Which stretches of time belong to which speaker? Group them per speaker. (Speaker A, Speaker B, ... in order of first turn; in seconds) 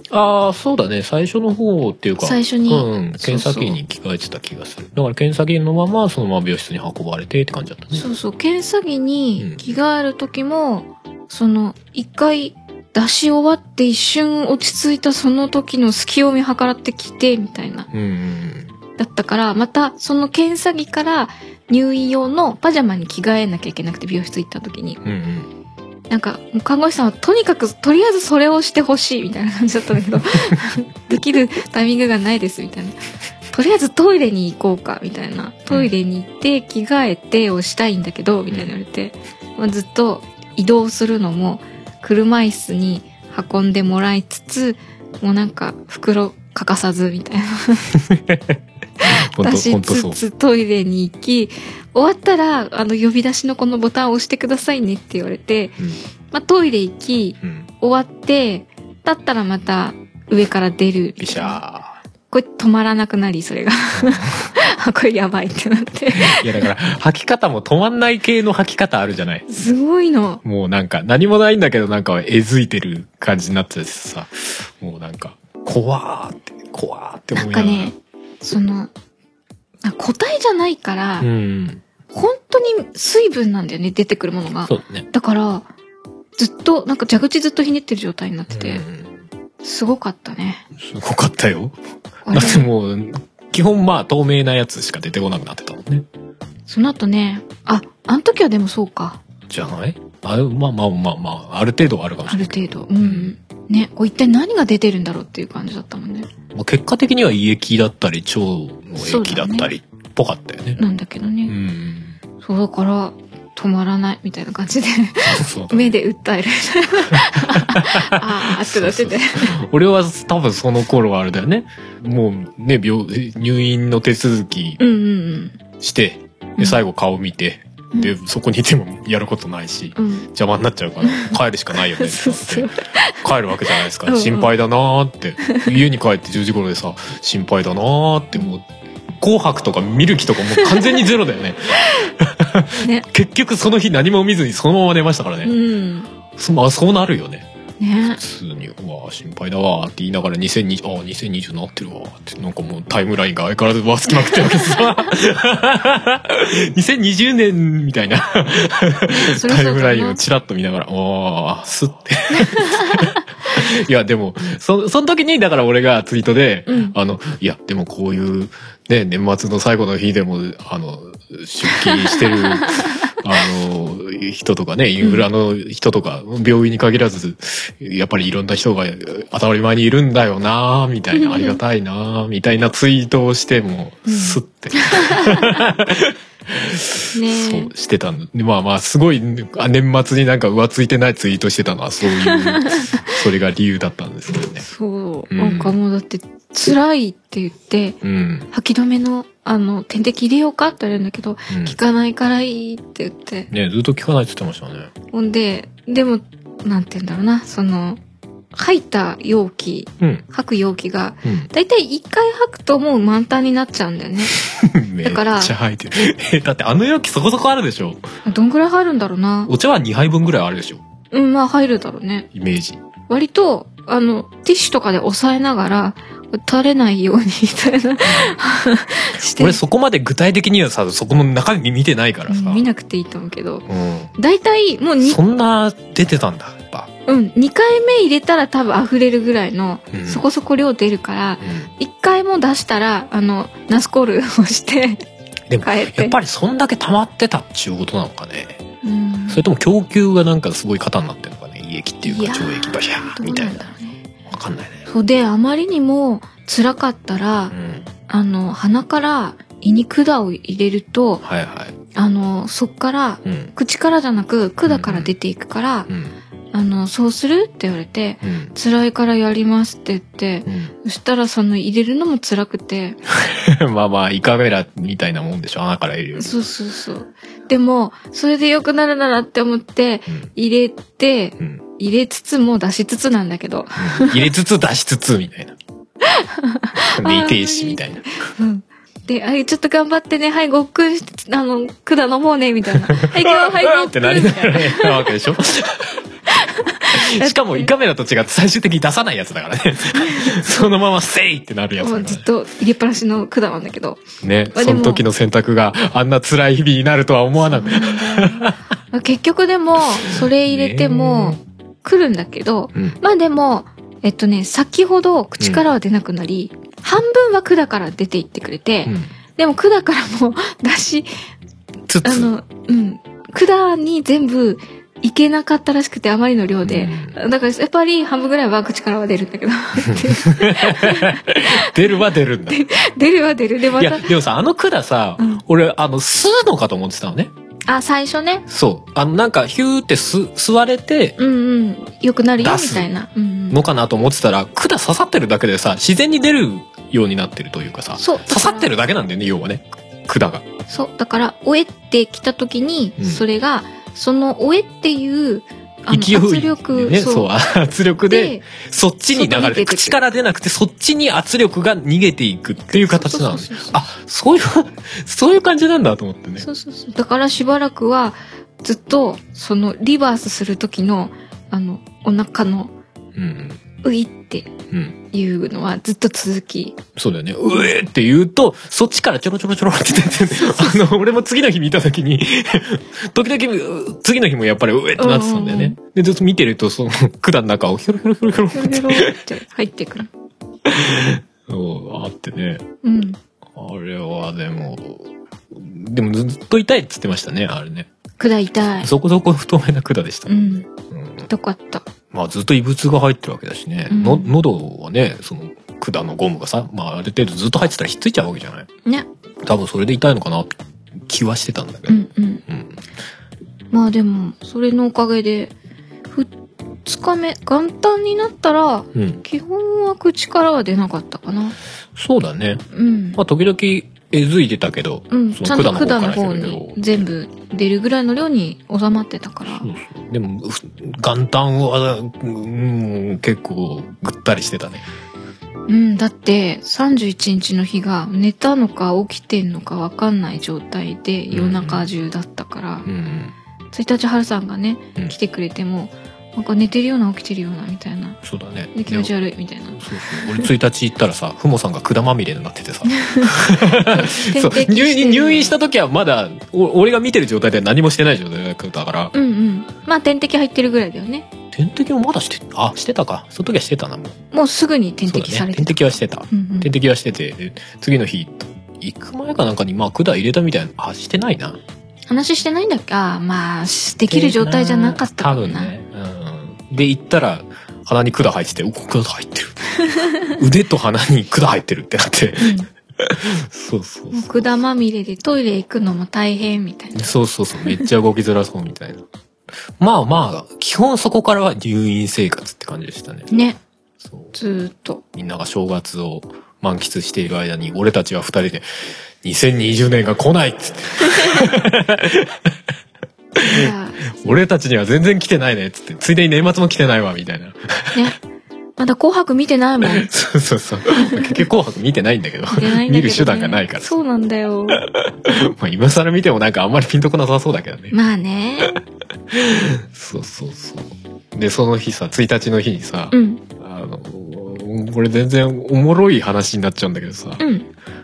Speaker A: 0.1-8.1, 9.4-9.7, 17.9-18.8, 25.0-25.5, 47.9-50.2, 57.4-57.7, 61.2-62.0, 63.9-64.5, 66.1-69.5, 70.4-77.9, 81.2-81.8, 84.7-85.1, 88.5-89.2, 90.8-91.8, 92.3-96.1, 99.5-103.3, 106.5-110.8, 111.5-112.2, 115.2-115.9, 117.1-124.8, 125.8-138.7, 139.2-145.5, 146.3-147.5, 148.2-194.7, 195.3-195.8, 198.0-198.5, 201.5-201.8, 203.5-204.9, 211.2-211.5, 214.3-218.1, 219.5-220.8, 222.3-222.8, 228.0-228.4, 229.4-232.7, 233.7-234.1, 235.0-236.9, 239.9-240.2, 241.4-241.7, 245.5-248.6, 249.3-253.6, 254.3-254.9, 257.5-257.9, 261.2-261.7, 263.2-263.5, 264.7-265.1, 265.9-266.1, 268.2-268.5, 270.5-270.8, 273.1-276.3, 283.8-285.6, 287.0-288.1, 292.9-296.0, 296.9-302.2, 304.2-308.6, 310.0-311.4, 315.4-315.7, 318.9-319.1, 321.9-322.3, 326.6-327.2, 329.8-332.6, 333.7-337.3, 338.5-341.2, 342.4-342.9, 343.5-350.6, 353.0-353.2, 355.9-366.5, 373.2-373.6, 374.7-375.0, 377.0-389.2, 390.6-392.7, 393.6-397.9, 398.8-400.4, 400.9-401.3, 402.1-408.7, 409.4-412.8, 418.9-419.2, 422.0-422.6, 423.2-426.8, 429.5-434.9, 441.3-441.9, 442.9-443.4, 448.2-449.1, 449.7-459.1, 461.5-464.2, 465.1-471.6, 474.0-484.5, 486.9-489.0, 489.8-493.3, 494.1-494.3, 495.1-498.7, 499.2-502.3, 503.4-508.1, 509.9-514.0, 514.8-518.0, 519.3-527.5
Speaker B: 2.2-3.8, 7.9-17.9, 19.0-25.0, 26.1-33.0, 33.5-47.9, 49.0-55.8, 56.3-61.6, 62.3-66.7, 69.5-70.4, 77.3-78.9, 79.8-81.3, 82.1-85.7, 86.4-88.8, 89.6-90.7, 92.2-92.7, 96.7-99.2, 102.3-106.3, 109.0-109.7, 110.8-111.6, 112.4-119.6, 124.8-125.6, 130.0-130.3, 131.0-133.2, 134.1-134.5, 140.6-141.1, 142.8-143.1, 145.4-146.1, 147.8-148.2, 154.1-154.9, 159.1-160.2, 162.4-163.1, 166.7-167.0, 171.9-172.7, 175.0-175.3, 181.1-181.6, 184.1-185.6, 187.1-187.7, 192.1-193.0, 194.6-198.0, 198.5-203.5, 205.1-208.0, 208.5-214.4, 215.0-215.5, 218.2-219.5, 221.1-222.3, 223.1-229.6, 232.3-233.7, 234.2-235.2, 237.1-245.0, 245.6-246.2, 248.8-249.4, 252.0-254.0, 254.9-257.6, 258.1-261.2, 261.9-265.9, 266.5-273.0, 276.2-284.3, 286.0-295.3, 296.3-297.7, 299.9-300.6, 301.8-305.1, 307.4-321.1, 322.0-334.1, 335.2-335.4, 337.7-338.4, 341.2-343.6, 348.0-348.7, 350.7-357.3, 358.1-358.5, 359.1-360.0, 362.7-363.8, 366.4-372.7, 373.8-374.5, 375.1-376.8, 380.2-380.9, 385.0-385.8, 388.5-390.1, 392.8-393.2, 398.2-398.9, 400.3-400.7, 401.3-401.9, 403.9-404.3, 411.9-412.4, 413.7-415.5, 416.9-421.6, 422.7-423.2, 425.1-429.7, 435.7-442.9, 443.7-448.2, 448.7-450.5, 452.9-455.5, 459.1-461.3, 464.3-466.7, 472.1-475.7, 482.4-482.7, 484.1-487.1, 493.3-493.6, 494.4-495.0, 503.5-504.2, 508.8-510.1, 511.0-511.4, 512.5-514.8, 517.9-518.8, 523.1-523.4, 527.4-527.7